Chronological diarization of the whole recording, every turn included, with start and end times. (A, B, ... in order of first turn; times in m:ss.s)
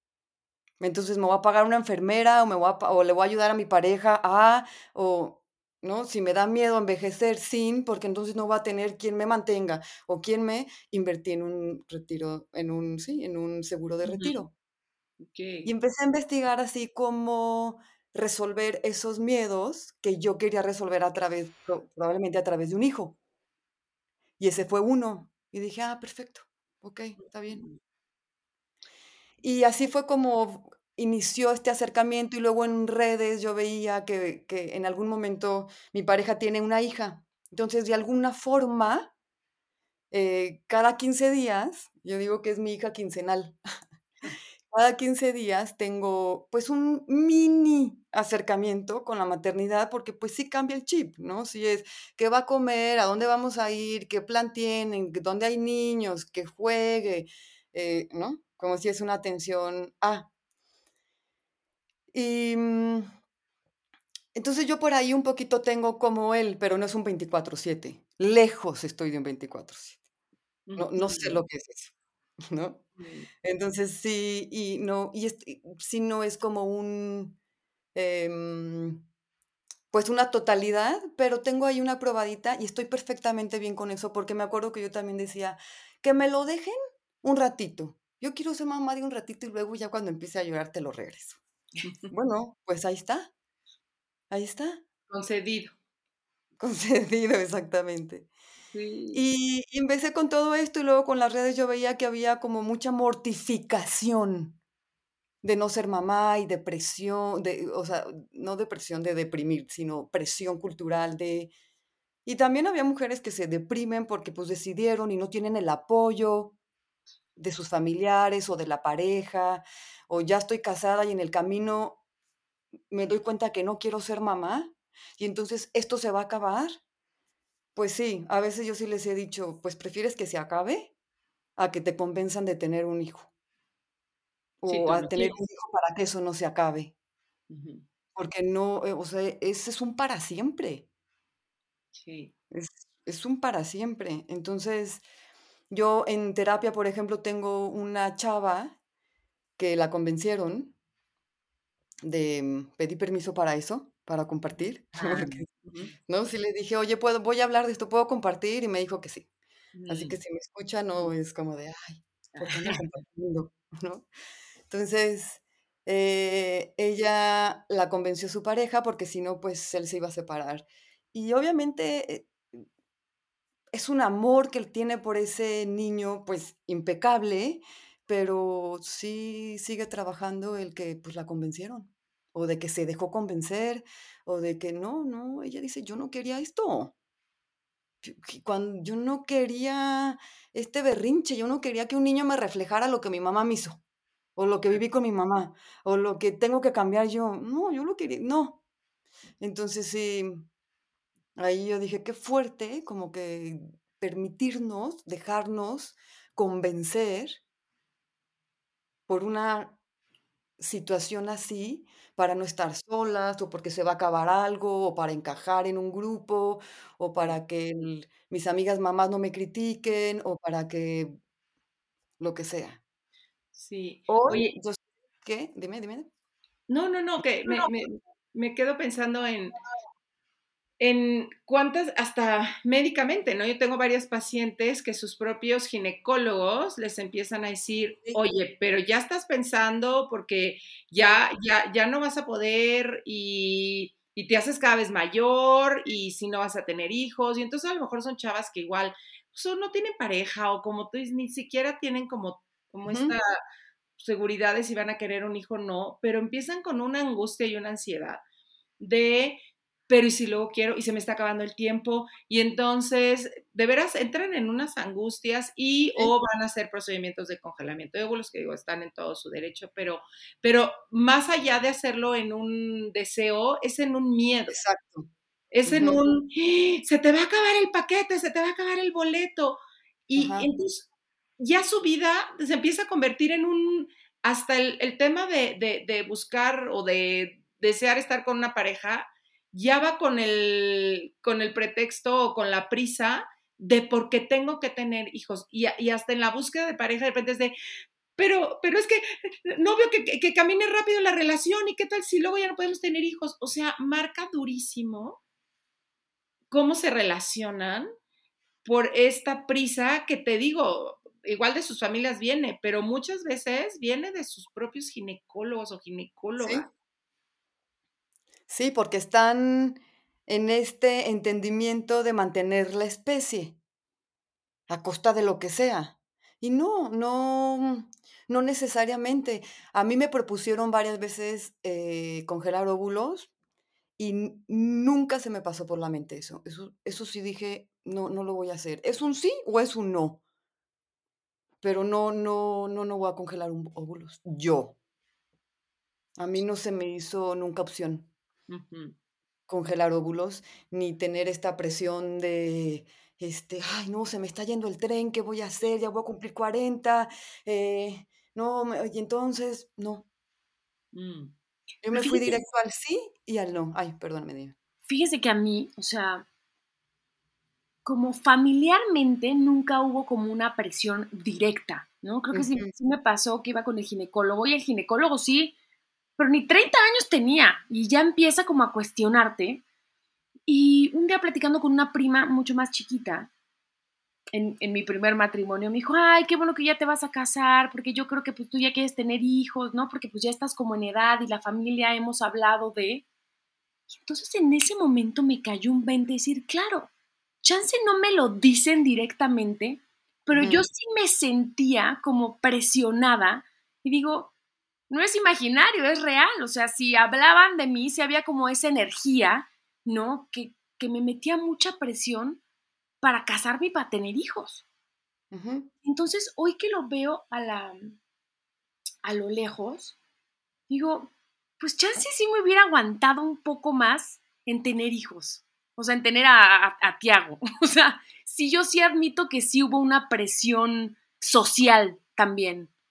0:00.8-0:14.5 A
0:14.0-0:14.4 B
0:15.2-0:15.7 B
0:15.6-0:23.2 A
0:24.4-0:27.6 A
0:27.2-0:27.8 B
0:29.4-0:39.1 A
0:40.1-0:43.6 A
0:44.7-1:00.3 A
1:02.1-1:03.0 A
1:04.3-1:10.0 A
1:10.7-1:11.4 B
1:10.8-1:11.9 A
1:12.5-1:12.8 A
1:13.0-1:13.3 B
1:13.4-1:17.4 A
1:17.9-1:19.0 A
1:19.9-1:31.4 A
1:31.8-1:32.1 B
1:32.1-1:33.3 A
1:34.3-1:34.8 A
1:35.1-1:35.8 B
1:36.6-1:38.3 A
1:38.7-1:39.2 B
1:39.1-1:44.6 A
1:45.4-1:51.5 A
1:52.2-1:56.5 A
1:57.4-2:02.0 A
2:02.9-2:06.8 A
2:07.8-2:10.9 A
2:11.6-2:13.3 A
2:14.6-2:16.9 A
2:14.7-2:15.4 B
2:17.5-2:17.9 B
2:18.1-2:20.9 A
2:21.9-2:22.3 B
2:22.5-2:25.0 A
2:25.7-2:28.8 A
2:29.6-2:30.7 A
2:32.0-2:35.5 A
2:35.2-2:35.9 B
2:36.0-2:39.3 A
2:39.8-2:40.2 B
2:39.9-2:44.1 A
2:44.7-2:52.6 A
2:53.7-3:06.9 A
3:08.0-3:13.8 A
3:14.4-3:18.6 A
3:19.4-3:20.4 A
3:21.4-3:27.4 A
3:29.1-3:29.8 A
3:30.6-3:41.1 A
3:42.2-3:42.8 A
3:43.5-3:44.5 B
3:44.1-3:46.1 A
3:46.7-3:49.6 B
3:47.4-3:47.7 A
3:50.8-4:13.3 B
4:12.9-4:13.1 A
4:14.0-4:18.2 B
4:18.8-4:34.6 B
4:34.5-4:35.1 A
4:35.5-4:57.5 B
4:35.6-4:36.0 A
4:40.2-4:40.5 A
4:58.2-5:05.2 B
5:06.5-5:07.9 B
5:08.6-5:16.7 B
5:16.4-5:16.6 A
5:18.5-5:23.6 A
5:24.7-5:33.3 A
5:34.0-5:40.2 A
5:41.6-5:44.8 A
5:46.2-5:48.1 A
5:48.5-5:48.9 B
5:49.5-6:00.0 A
6:00.9-6:01.3 B
6:01.8-6:04.6 A
6:01.9-6:02.4 C
6:04.9-6:06.2 C
6:07.8-6:15.5 C
6:12.3-6:12.7 A
6:16.2-6:19.6 C
6:20.5-6:23.3 C
6:24.3-6:33.0 C
6:33.9-6:36.9 C
6:37.4-6:44.3 C
6:40.3-6:40.6 A
6:44.9-6:52.4 C
6:53.0-6:54.6 C
6:55.3-6:55.7 A
6:55.8-6:58.0 C
6:59.0-7:00.0 C
7:00.7-7:12.7 C